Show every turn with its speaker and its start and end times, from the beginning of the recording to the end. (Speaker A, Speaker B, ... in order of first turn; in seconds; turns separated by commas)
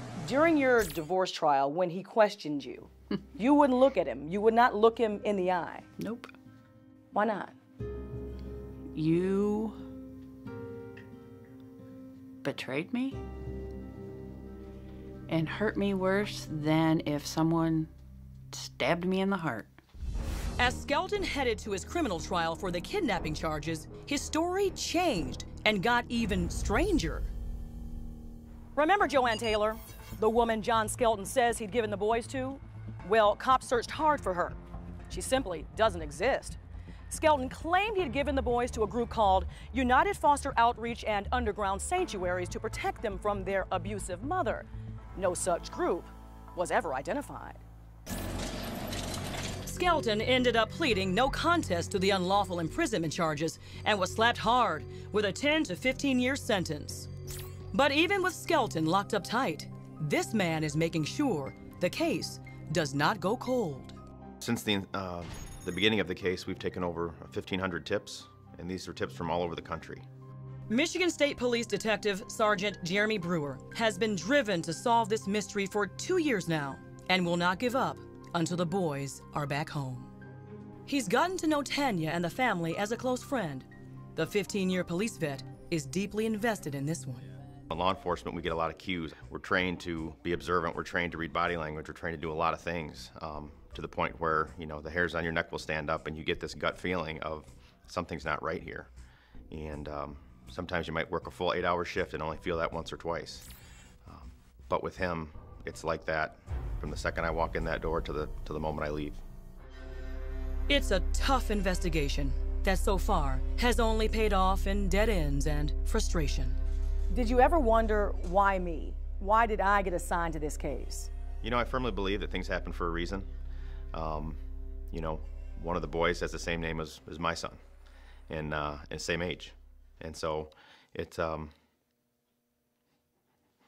Speaker A: 0.2-5.8, Speaker B: 6.0-6.3, Speaker A: 7.1-7.5, Speaker B: 8.9-9.8, Speaker B: 12.4-13.2, Speaker B: 15.3-17.9, Speaker B: 18.5-19.7, Speaker C: 20.6-27.3, Speaker C: 28.8-34.6, Speaker C: 35.1-47.6, Speaker C: 49.6-57.1, Speaker C: 57.7-63.9, Speaker D: 64.4-70.1, Speaker C: 70.7-80.1, Speaker C: 80.9-87.2, Speaker D: 87.7-98.9, Speaker D: 99.5-103.5, Speaker D: 104.0-109.2, Speaker C: 110.7-116.6, Speaker A: 117.1-121.1, Speaker D: 121.4-123.3, Speaker D: 123.9-124.4, Speaker D: 124.9-127.6, Speaker D: 128.3-131.5